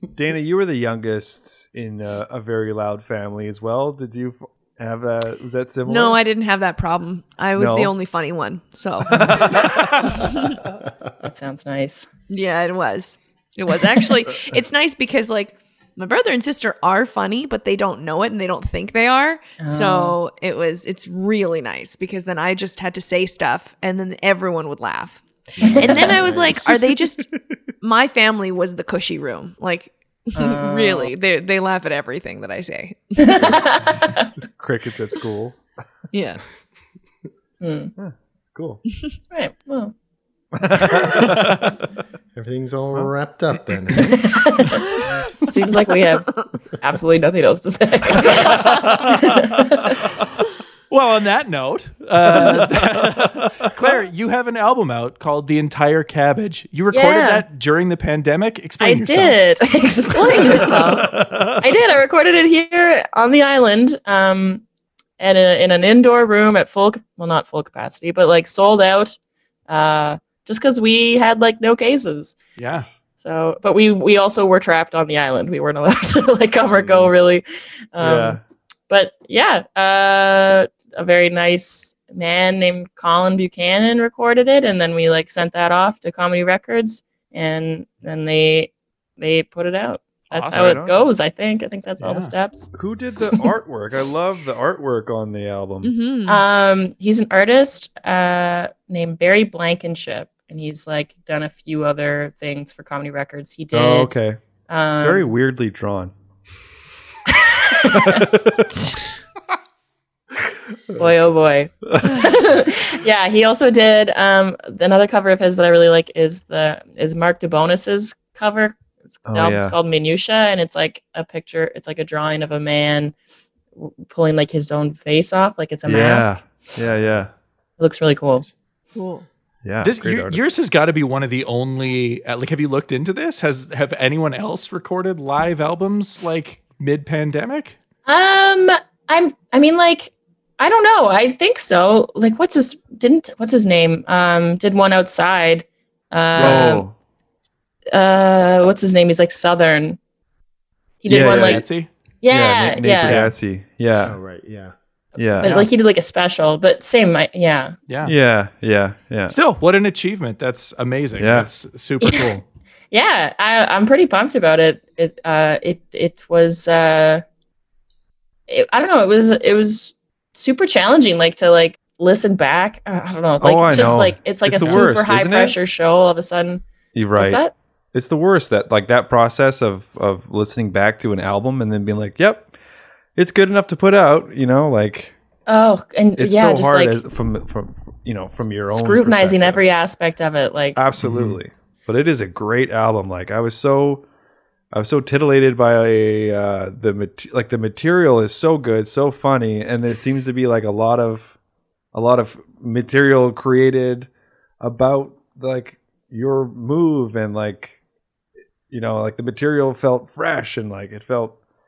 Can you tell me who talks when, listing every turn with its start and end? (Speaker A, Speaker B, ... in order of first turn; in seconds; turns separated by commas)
Speaker A: 0.1-6.2, Speaker B: 5.9-9.5, Speaker A: 7.6-7.9, Speaker A: 9.1-10.2, Speaker C: 11.2-12.1, Speaker B: 12.3-27.3, Speaker C: 19.6-20.2, Speaker D: 25.6-26.7, Speaker B: 27.8-33.4, Speaker C: 30.4-31.1, Speaker C: 33.2-34.3, Speaker D: 33.4-33.7, Speaker A: 34.3-35.6, Speaker B: 36.1-36.4, Speaker C: 37.6-37.9, Speaker A: 38.0-38.8, Speaker C: 39.3-39.9, Speaker A: 40.6-41.8, Speaker D: 42.3-44.3, Speaker C: 44.0-44.8, Speaker C: 45.4-50.0, Speaker A: 48.2-49.4, Speaker E: 50.9-59.4, Speaker A: 52.5-53.7, Speaker C: 56.9-57.4, Speaker C: 58.8-64.6, Speaker B: 60.1-60.7, Speaker A: 60.6-61.7, Speaker C: 65.2-69.2, Speaker C: 69.7-72.4, Speaker E: 72.6-72.9, Speaker C: 73.2-78.4, Speaker A: 78.0-78.4, Speaker C: 78.9-92.7, Speaker E: 90.3-90.8, Speaker A: 90.5-91.1, Speaker E: 92.0-92.3, Speaker A: 92.7-95.9, Speaker B: 95.8-96.4, Speaker C: 96.3-104.2, Speaker A: 103.7-104.4, Speaker C: 104.7-105.3, Speaker A: 105.0-106.1, Speaker C: 107.7-108.3, Speaker A: 108.0-108.9, Speaker C: 111.0-123.1, Speaker A: 112.0-112.3, Speaker A: 119.3-119.8, Speaker C: 123.8-126.4, Speaker A: 125.8-127.3, Speaker C: 127.8-128.5, Speaker B: 128.9-129.3, Speaker A: 129.6-130.5, Speaker E: 129.8-137.8, Speaker C: 138.1-146.9, Speaker A: 146.4-146.9, Speaker E: 146.4-146.6, Speaker C: 147.9-150.0, Speaker C: 151.0-151.6, Speaker A: 151.1-151.8, Speaker E: 151.1-151.9, Speaker C: 152.2-153.3, Speaker A: 152.3-154.2, Speaker E: 153.0-153.3, Speaker D: 154.0-154.7, Speaker A: 155.2-155.7, Speaker C: 155.2-157.8, Speaker E: 157.9-158.2, Speaker A: 158.1-159.3, Speaker E: 159.3-162.4, Speaker A: 161.2-161.5, Speaker C: 162.9-167.2, Speaker C: 168.5-176.6, Speaker A: 173.4-175.6, Speaker E: 173.7-174.1, Speaker E: 174.6-174.9, Speaker A: 176.9-177.4, Speaker C: 177.2-177.5, Speaker A: 177.9-182.5, Speaker A: 183.2-185.2, Speaker C: 185.5-187.0, Speaker A: 186.2-189.6, Speaker C: 188.7-190.8, Speaker A: 190.8-194.0, Speaker A: 194.7-201.4, Speaker A: 201.9-204.1, Speaker A: 204.6-207.8, Speaker A: 208.7-211.4